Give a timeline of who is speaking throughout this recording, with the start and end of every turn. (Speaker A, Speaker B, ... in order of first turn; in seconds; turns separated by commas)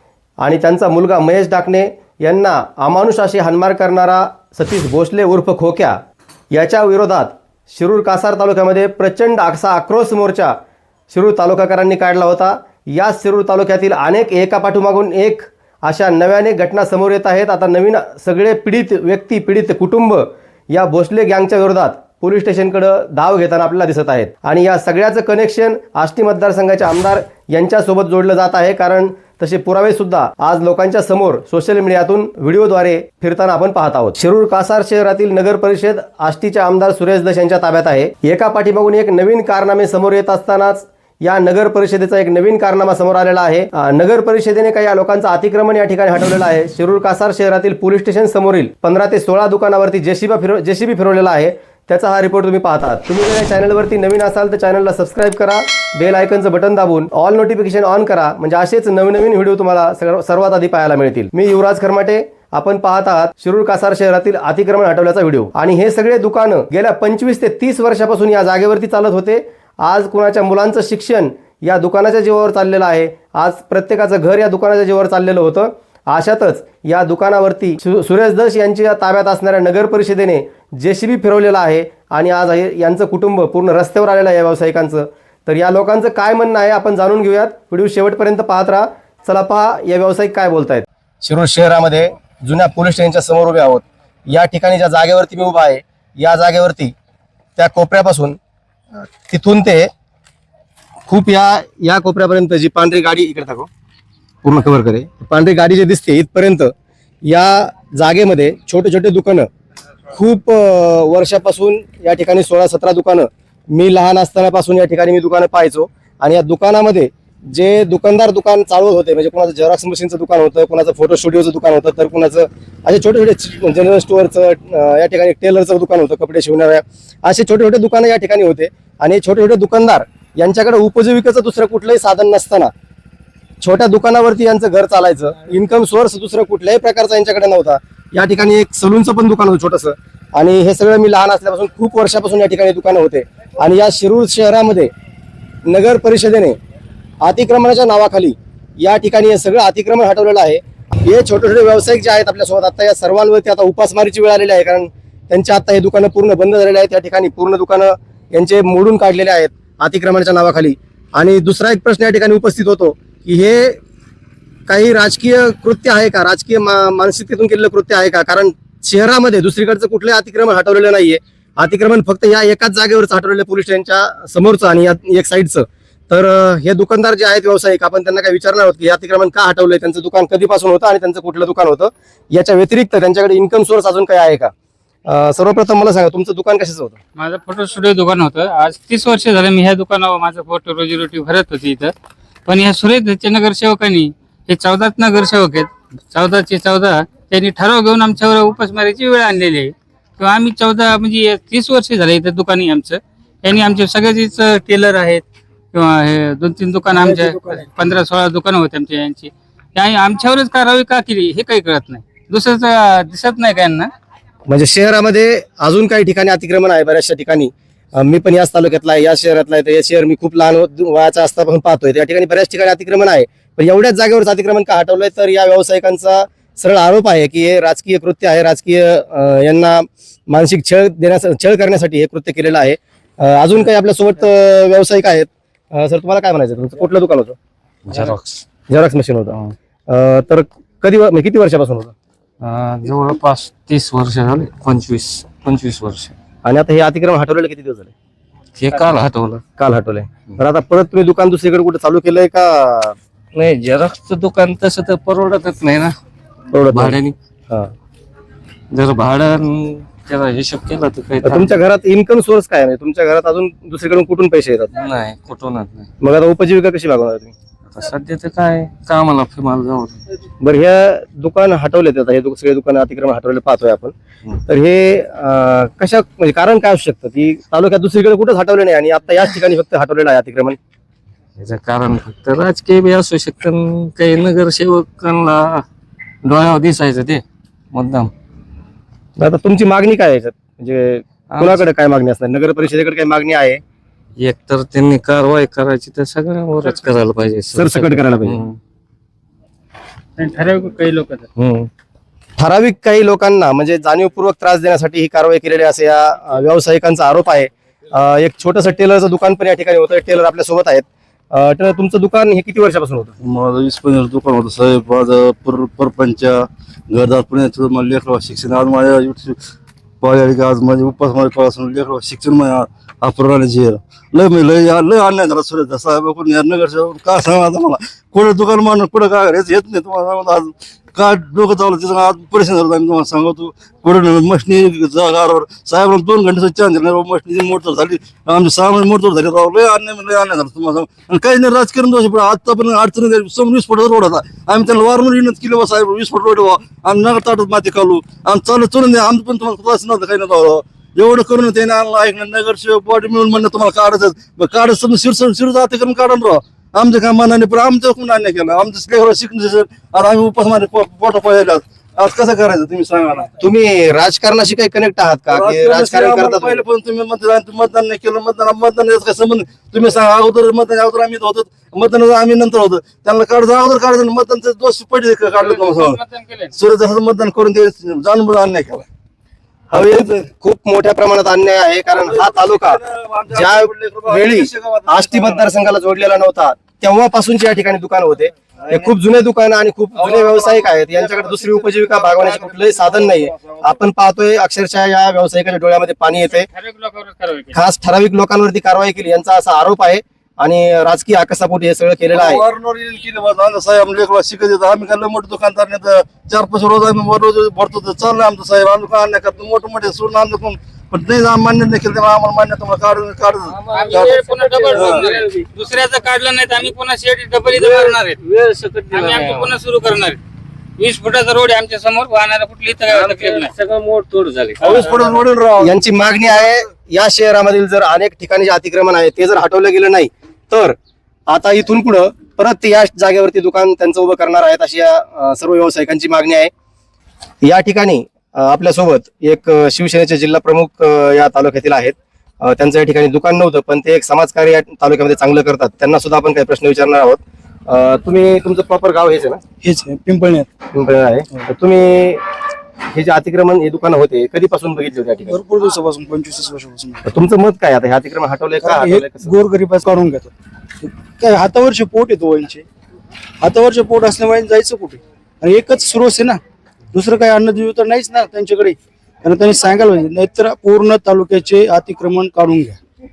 Speaker A: 0.4-6.0, Speaker A: 6.5-10.5, Speaker A: 11.1-96.9, Speaker A: 97.6-98.4, Speaker A: 99.3-99.9, Speaker A: 101.1-103.7, Speaker A: 104.4-106.7, Speaker A: 107.3-109.5, Speaker A: 110.1-132.7, Speaker A: 133.6-144.9, Speaker A: 145.7-146.6, Speaker A: 147.2-163.8, Speaker A: 164.7-184.5, Speaker A: 185.1-187.0, Speaker B: 187.2-191.9, Speaker B: 192.5-213.9, Speaker C: 207.0-207.6, Speaker A: 214.5-237.4, Speaker D: 237.9-238.4, Speaker A: 238.7-239.4, Speaker A: 239.9-241.9, Speaker D: 242.4-246.2, Speaker A: 246.4-247.9, Speaker D: 248.6-249.4, Speaker A: 249.6-252.9, Speaker D: 253.3-255.9, Speaker A: 256.5-257.0, Speaker D: 256.7-257.1, Speaker D: 258.7-261.6, Speaker A: 261.2-264.7, Speaker D: 264.7-265.9, Speaker A: 266.0-267.3, Speaker D: 267.7-270.0, Speaker A: 270.4-273.9, Speaker A: 274.4-280.6, Speaker D: 281.4-285.6, Speaker D: 286.2-288.1, Speaker A: 289.2-293.6, Speaker D: 291.3-291.6, Speaker D: 294.2-298.6, Speaker B: 296.6-296.9, Speaker A: 297.5-298.4, Speaker B: 300.2-301.3, Speaker A: 301.4-301.7, Speaker A: 302.4-313.1, Speaker E: 313.2-319.4, Speaker E: 320.0-363.4, Speaker A: 363.4-366.6, Speaker E: 365.3-376.0, Speaker B: 375.3-376.5, Speaker E: 376.5-378.9, Speaker A: 379.7-382.8, Speaker E: 381.9-385.5, Speaker A: 383.3-396.5, Speaker E: 388.6-388.9, Speaker E: 389.9-393.8, Speaker B: 396.2-397.6, Speaker A: 397.5-402.4, Speaker E: 402.1-415.1, Speaker D: 413.6-415.3, Speaker B: 413.7-418.2, Speaker D: 417.6-419.5, Speaker B: 418.9-420.2, Speaker B: 420.8-423.5, Speaker D: 422.9-425.0, Speaker E: 424.6-426.1, Speaker A: 425.6-430.8, Speaker A: 431.3-436.5, Speaker A: 437.4-449.4, Speaker C: 449.6-450.5, Speaker A: 450.7-452.2, Speaker A: 452.9-455.4, Speaker C: 455.2-457.1, Speaker A: 457.1-459.4, Speaker C: 458.6-462.6, Speaker C: 463.4-466.4, Speaker C: 466.9-472.8